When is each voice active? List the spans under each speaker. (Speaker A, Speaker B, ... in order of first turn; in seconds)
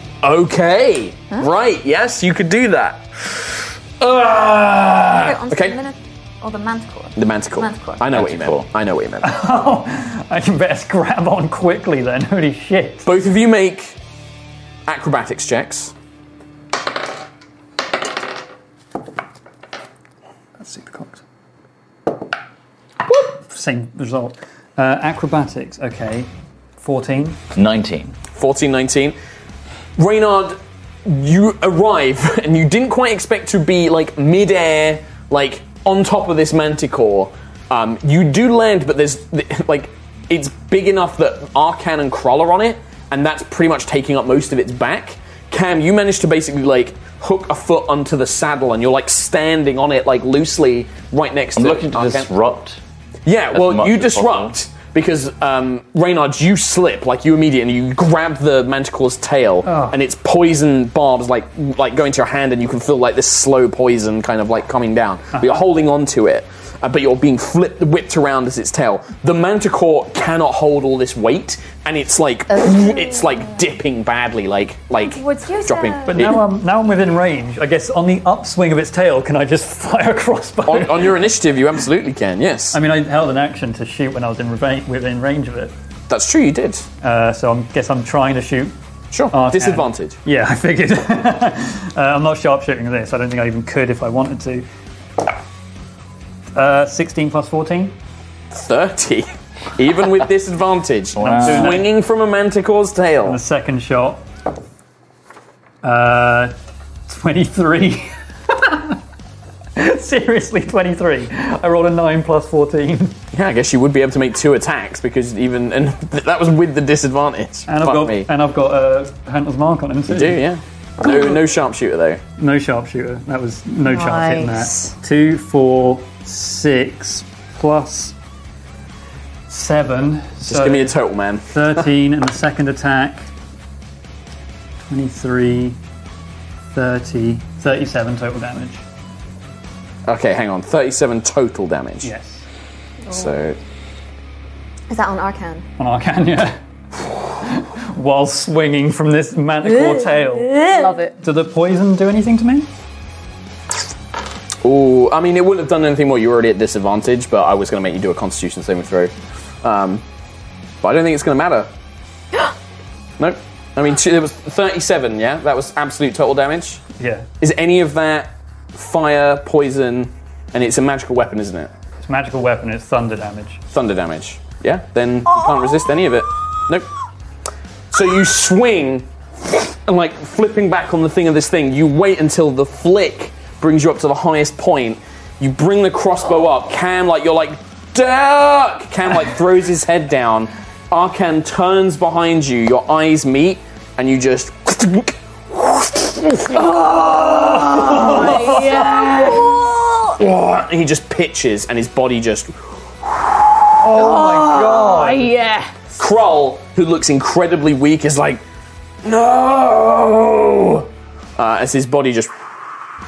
Speaker A: 0.2-5.8, 7.2-9.4, 13.0-14.0, 14.9-15.9, 28.3-29.1, 30.0-52.3, 53.2-76.4, 80.7-82.8, 86.1-86.8, 89.1-90.2, 98.5-103.4, 113.3-118.3, 120.1-122.2, 130.5-131.5, 140.1-142.1, 143.1-143.6, 154.6-159.1, 159.6-160.0, 160.8-161.7, 163.2-166.8, 167.4-171.7, 173.7-176.9, 177.9-199.4, 200.2-203.7, 206.0-208.4, 209.0-212.3
Speaker B: 5.2-8.0, 72.7-73.2, 75.0-76.3, 124.0-124.9, 144.9-145.7, 149.8-151.2
Speaker C: 8.1-8.7, 27.5-28.1, 51.5-52.8, 53.5-54.5, 101.2-101.8
Speaker D: 9.2-13.1, 20.6-21.2, 23.3-27.4, 59.6-60.0, 65.3-65.6, 76.1-81.3, 82.7-85.7, 87.0-88.7, 89.3-94.7, 96.5-97.9, 101.2-101.9, 103.2-104.2, 105.8-106.5, 107.1-109.0, 109.8-113.2, 117.7-120.4, 122.4-128.1, 129.5-130.9, 131.5-133.3, 134.9-135.8, 136.7-138.8, 142.0-142.4, 145.8-146.6, 147.3-150.6, 151.2-152.7, 167.0-167.3, 172.0-173.6, 197.2-199.5, 203.8-205.3
Speaker E: 124.0-124.5, 196.8-200.2, 203.9-205.7